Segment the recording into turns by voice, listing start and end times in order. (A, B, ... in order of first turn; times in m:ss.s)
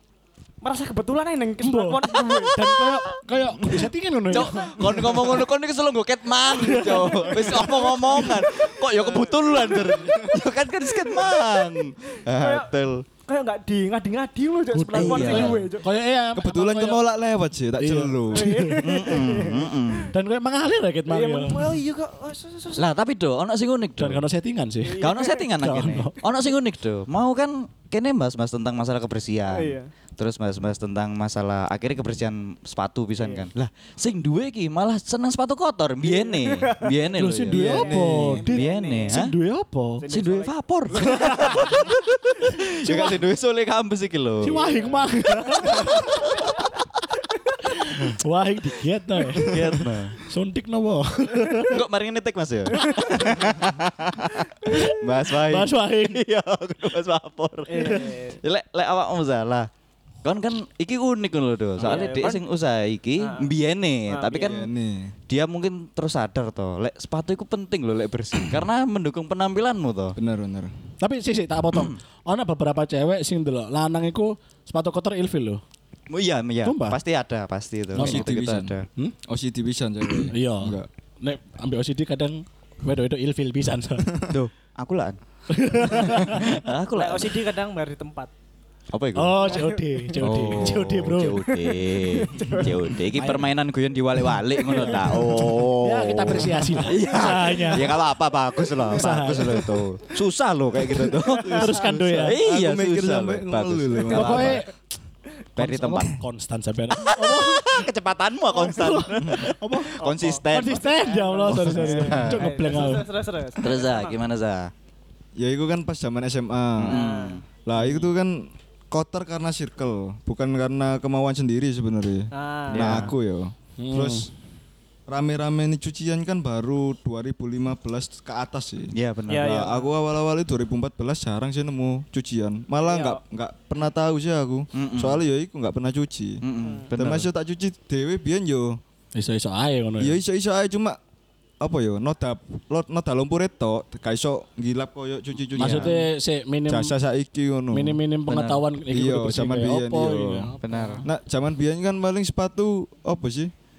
0:00.6-0:02.8 A
0:01.6-0:05.4 B
0:02.1-0:03.8 C
0:04.3-0:13.0 C
0:06.5-0:07.7 B
0:07.4-0:08.0 D
0:09.0-0:10.0 A
0:09.1-0:10.4 D
0:12.3-0:12.7 A
0:13.3-0:15.9 A
0:14.7-0:17.1 B
0:14.9-0:15.7 C
0:16.3-0:18.5 D
0:17.8-0:18.8 B
0:18.3-0:20.0 A
0:18.8-0:20.1 C
0:20.1-0:21.7 B
0:21.1-0:22.9 A
0:22.8-0:24.2 C
0:24.0-0:25.0 B
0:24.8-0:25.5 A
0:25.0-0:37.9 C
0:25.6-0:26.2 B
0:29.5-0:29.9 A
0:33.2-0:33.5 A
0:36.0-0:37.0 A
0:37.2-0:40.0 B
0:37.5-0:39.2 A
0:37.5-0:38.4 D
0:38.5-0:39.3 C
0:40.0-0:41.8 A
0:40.1-0:44.8 C
0:41.0-0:41.7 B
0:42.8-0:43.2 B
0:44.4-0:46.1 B
0:44.5-0:45.0 A
0:45.6-0:46.5 C
0:47.8-0:51.8 B
0:49.5-0:50.2 C
0:51.7-0:59.7 C
0:52.8-0:53.3 A
0:54.7-0:56.2 B
0:57.7-0:58.4 A
0:57.8-0:58.1 B
1:00.2-1:04.7 C
1:01.8-1:02.2 D
1:01.8-1:02.4 A
1:03.2-1:03.5 A
1:04.1-1:04.7 A
1:04.4-1:05.2 D
1:05.3-1:10.2 C
1:10.2-1:10.7 D
1:11.0-1:15.6 B
1:16.1-1:18.9 C
1:16.6-1:17.0 B
1:18.0-1:18.3 B
1:18.0-1:18.8 D
1:19.3-1:20.9 D
1:20.3-1:24.1 B
1:24.1-1:24.4 D
1:24.3-1:25.2 C
1:25.5-1:26.6 B
1:25.9-1:27.4 C
1:27.0-1:28.3 A
1:28.9-1:29.5 C
1:29.2-1:31.6 B
1:29.4-1:30.2 A
1:30.2-1:44.6 C
1:31.9-1:32.8 A
1:33.1-1:33.5 B
1:34.7-1:37.9 B
1:38.9-1:39.8 B
1:40.9-1:44.6 D
1:41.6-1:42.4 B
1:44.1-1:44.7 B
1:45.6-1:46.2 C
1:45.6-1:47.8 B
1:46.9-1:50.8 C
1:48.6-1:49.0 A
1:48.8-1:50.0 B
1:50.0-1:54.2 A
1:50.5-1:53.1 B
1:51.5-1:52.5 C
1:53.6-1:54.7 C
1:55.4-1:57.0 D
1:56.8-1:58.0 C
1:56.9-1:57.4 A
1:57.6-2:04.3 D
2:02.3-2:03.1 A
2:02.7-2:03.2 C
2:03.8-2:04.3 B
2:05.1-2:18.8 D
2:08.9-2:09.5 C
2:09.3-2:09.9 A
2:12.8-2:13.2 A
2:14.7-2:15.2 C
2:16.4-2:17.3 C
2:16.6-2:16.9 A
2:19.2-2:20.2 B
2:20.0-2:21.0 D
2:21.6-2:26.0 D
2:25.6-2:26.9 B
2:25.6-2:25.9 C
2:26.7-2:28.0 D
2:27.7-2:31.1 B
2:28.3-2:28.6 C
2:28.9-2:30.5 D
2:30.6-2:31.0 C
2:31.0-2:33.5 D